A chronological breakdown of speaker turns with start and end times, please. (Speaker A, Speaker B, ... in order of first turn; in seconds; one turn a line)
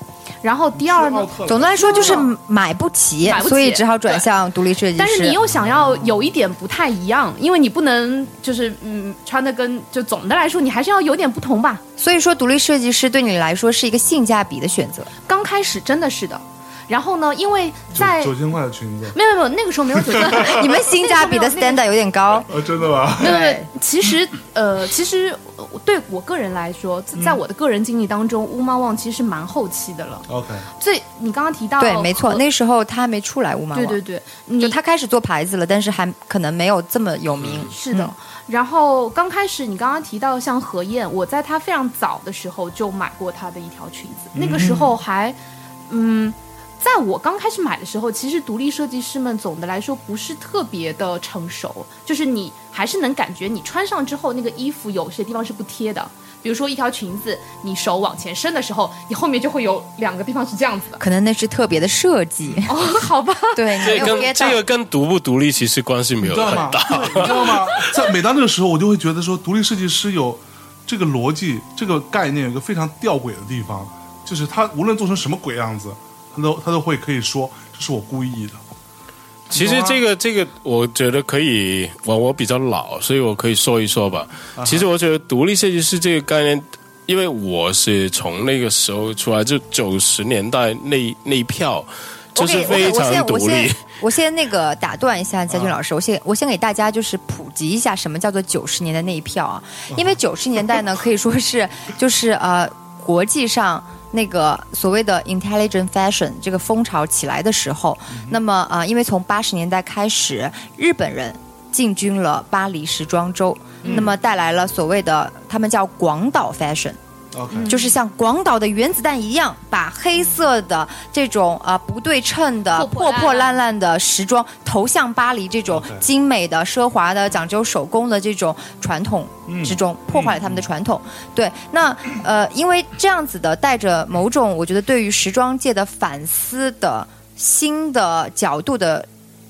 Speaker A: 0.4-2.3
Speaker B: 0.7-2.3
Speaker C: 1.4-5.4
Speaker A: 3.2-4.2
Speaker A: 5.0-11.8
Speaker B: 5.5-6.2
Speaker C: 12.0-15.1
Speaker A: 15.3-18.4
Speaker B: 17.9-19.2
Speaker A: 19.1-21.8
Speaker B: 19.9-20.6
Speaker C: 20.4-22.5
Speaker B: 22.4-23.4
Speaker C: 23.2-23.7
Speaker A: 23.2-30.2
Speaker B: 27.1-27.4
Speaker B: 30.3-30.7
Speaker A: 30.8-32.4
Speaker C: 31.8-34.0
Speaker A: 33.7-34.8
Speaker C: 34.6-38.1
Speaker A: 37.7-45.4
Speaker B: 44.3-45.0
Speaker A: 45.9-61.0
Speaker C: 61.0-62.9
Speaker A: 62.7-64.2
Speaker C: 63.5-64.6
Speaker D: 63.8-67.9
Speaker B: 66.2-78.6
Speaker A: 67.2-67.8
Speaker B: 79.5-80.0
Speaker D: 79.5-93.8
Speaker B: 84.5-84.9
Speaker C: 92.3-117.0
Speaker B: 95.5-95.8
Speaker B: 99.9-100.2
Speaker B: 108.1-108.4
Speaker A: 113.8-114.1
Speaker B: 113.8-114.1
Speaker B: 117.3-117.8
Speaker A: 117.5-117.9
Speaker C: 117.7-139.1
Speaker A: 122.7-123.5
Speaker B: 125.7-126.1
Speaker B: 129.5-130.6